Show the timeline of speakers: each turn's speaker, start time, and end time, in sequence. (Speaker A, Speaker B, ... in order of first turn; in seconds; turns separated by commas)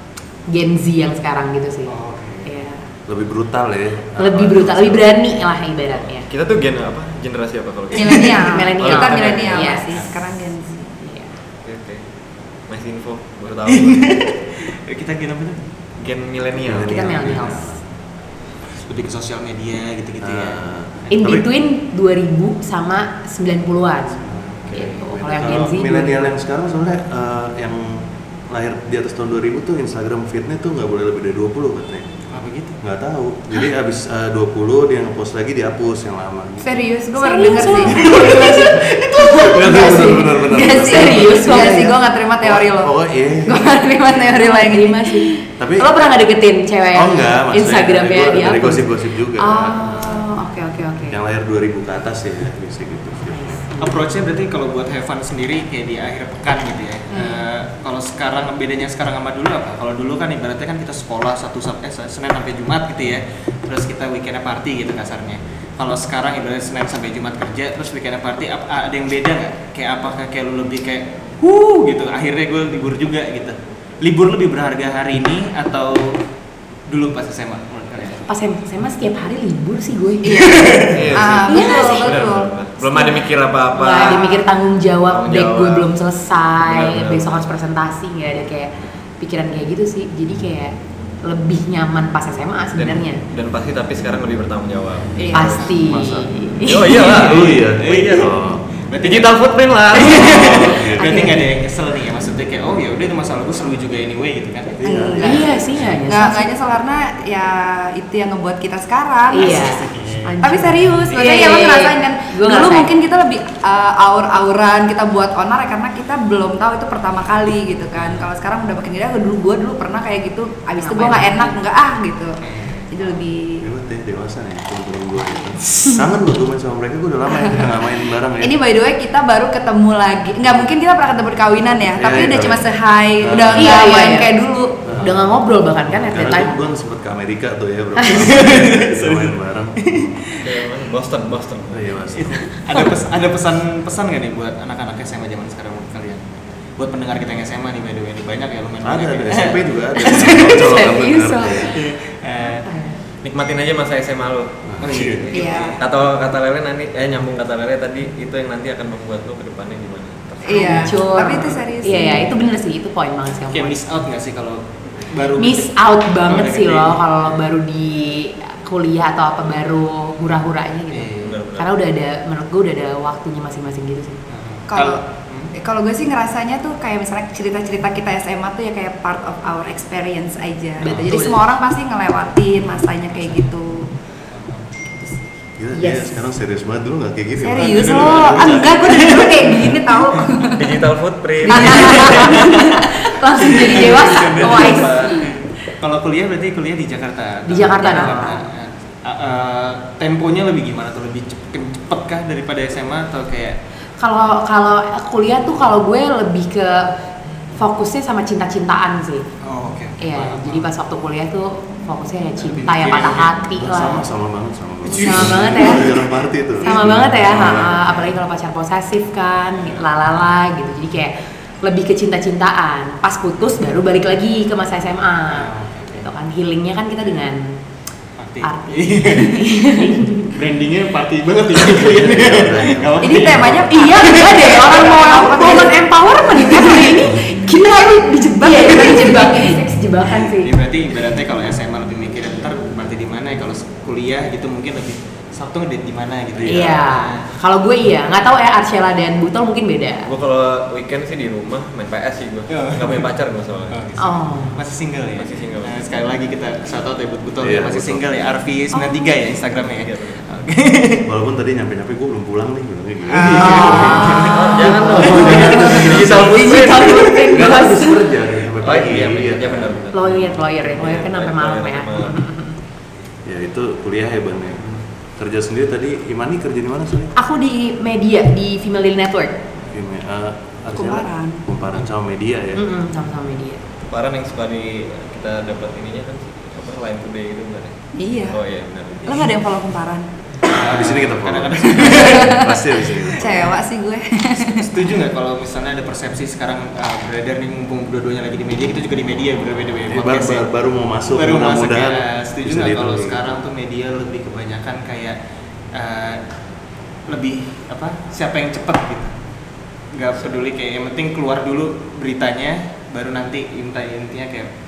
Speaker A: 0.5-2.8, Speaker B: 1.9-2.5, Speaker C: 3.1-5.2, Speaker A: 4.2-6.2, Speaker D: 6.2-9.5, Speaker E: 7.9-10.9, Speaker A: 8.4-9.9, Speaker A: 11.0-11.3, Speaker D: 11.6-12.0, Speaker D: 12.7-14.1, Speaker B: 13.7-15.6, Speaker D: 16.0-17.4, Speaker C: 16.6-17.8, Speaker A: 16.8-17.8, Speaker B: 18.8-21.4, Speaker C: 20.2-21.4, Speaker A: 21.1-24.2, Speaker C: 24.6-32.2, Speaker A: 24.7-26.3, Speaker B: 32.3-32.8, Speaker C: 32.8-36.8, Speaker E: 36.6-42.9, Speaker A: 37.2-41.9, Speaker C: 37.8-38.5, Speaker C: 39.5-43.7, Speaker E: 43.4-45.3, Speaker A: 44.2-51.2, Speaker C: 45.6-45.9, Speaker C: 46.9-49.9, Speaker C: 51.1-53.6, Speaker A: 53.3-54.0, Speaker B: 53.8-76.2, Speaker A: 57.1-57.4, Speaker B: 76.9-78.2, Speaker A: 78.3-80.7, Speaker E: 80.2-83.2, Speaker B: 80.3-81.2, Speaker D: 80.9-84.3, Speaker A: 81.5-82.1, Speaker A: 83.7-93.2, Speaker E: 84.0-84.4, Speaker D: 85.1-85.9, Speaker D: 86.6-87.5, Speaker D: 92.8-95.5, Speaker E: 95.2-95.7, Speaker A: 95.3-97.2, Speaker C: 95.7-96.3, Speaker D: 96.6-97.6, Speaker C: 97.1-98.6, Speaker B: 97.3-99.3, Speaker D: 99.0-100.6, Speaker B: 99.9-104.8, Speaker A: 100.0-101.4, Speaker C: 100.1-101.2, Speaker C: 104.8-105.9, Speaker E: 104.8-109.8, Speaker A: 105.2-106.5, Speaker A: 109.3-112.9, Speaker B: 109.4-110.3, Speaker E: 110.4-122.3, Speaker B: 118.0-118.3, Speaker A: 120.8-121.6, Speaker B: 122.4-123.2, Speaker E: 122.9-123.6, Speaker C: 123.6-128.6, Speaker E: 128.4-134.8, Speaker C: 131.9-133.9, Speaker A: 133.5-134.3, Speaker C: 134.8-140.2, Speaker A: 135.0-136.5, Speaker B: 138.1-140.5, Speaker D: 140.4-141.9, Speaker C: 141.7-142.9, Speaker B: 142.1-150.4, Speaker C: 148.8-151.8, Speaker A: 150.0-151.8, Speaker B: 151.7-152.7, Speaker A: 152.6-152.9, Speaker D: 153.2-160.9, Speaker C: 154.7-155.3, Speaker B: 154.8-155.5, Speaker E: 155.3-155.8, Speaker E: 160.4-162.3, Speaker A: 160.5-163.8, Speaker B: 163.5-167.1, Speaker A: 165.4-174.2, Speaker B: 170.9-171.3, Speaker D: 171.2-171.7, Speaker B: 174.3-175.5, Speaker E: 174.7-175.0, Speaker E: 175.6-183.9, Speaker A: 180.8-181.4, Speaker B: 180.8-181.2, Speaker B: 184.3-184.7, Speaker C: 185.6-188.9, Speaker A: 185.7-186.2, Speaker E: 187.4-190.8, Speaker B: 187.6-190.2, Speaker D: 190.5-192.4, Speaker E: 191.5-192.9, Speaker A: 191.5-195.2, Speaker B: 191.7-192.7, Speaker B: 193.4-203.6, Speaker E: 193.4-194.8, Speaker D: 194.4-195.2, Speaker A: 197.5-198.4, Speaker A: 204.0-206.9, Speaker A: 207.6-209.2, Speaker B: 209.4-210.7, Speaker A: 210.0-214.0, Speaker B: 212.4-213.3, Speaker C: 213.6-218.0, Speaker B: 214.8-215.7, Speaker A: 214.9-216.0, Speaker A: 216.6-227.6, Speaker B: 219.6-219.8, Speaker B: 225.3-226.1, Speaker B: 228.2-234.7, Speaker A: 228.4-230.3, Speaker C: 231.6-233.7, Speaker E: 233.0-239.6, Speaker A: 233.7-240.5, Speaker B: 240.2-247.2, Speaker C: 246.4-246.7, Speaker A: 246.4-250.1, Speaker D: 250.1-253.9, Speaker B: 252.5-253.1, Speaker B: 253.7-261.1, Speaker A: 254.0-254.6, Speaker D: 255.2-255.8, Speaker C: 257.4-258.0, Speaker E: 258.8-259.1, Speaker D: 259.6-260.3, Speaker C: 261.1-269.8, Speaker B: 263.1-265.6, Speaker A: 263.4-268.1, Speaker D: 264.0-267.1, Speaker D: 268.6-272.2, Speaker A: 269.9-272.6, Speaker C: 273.2-274.6, Speaker C: 275.2-277.1, Speaker A: 277.1-279.3, Speaker C: 279.7-282.6, Speaker E: 280.7-281.4, Speaker A: 282.6-283.6, Speaker D: 283.8-287.8, Speaker E: 288.0-288.4, Speaker D: 288.3-289.1, Speaker E: 289.0-290.1, Speaker B: 290.5-293.5, Speaker C: 290.5-293.5, Speaker E: 291.8-292.4, Speaker E: 293.2-294.7, Speaker B: 294.4-300.4, Speaker C: 299.9-303.3, Speaker B: 301.1-305.1, Speaker B: 305.7-306.2, Speaker B: 307.1-309.1, Speaker B: 309.9-314.5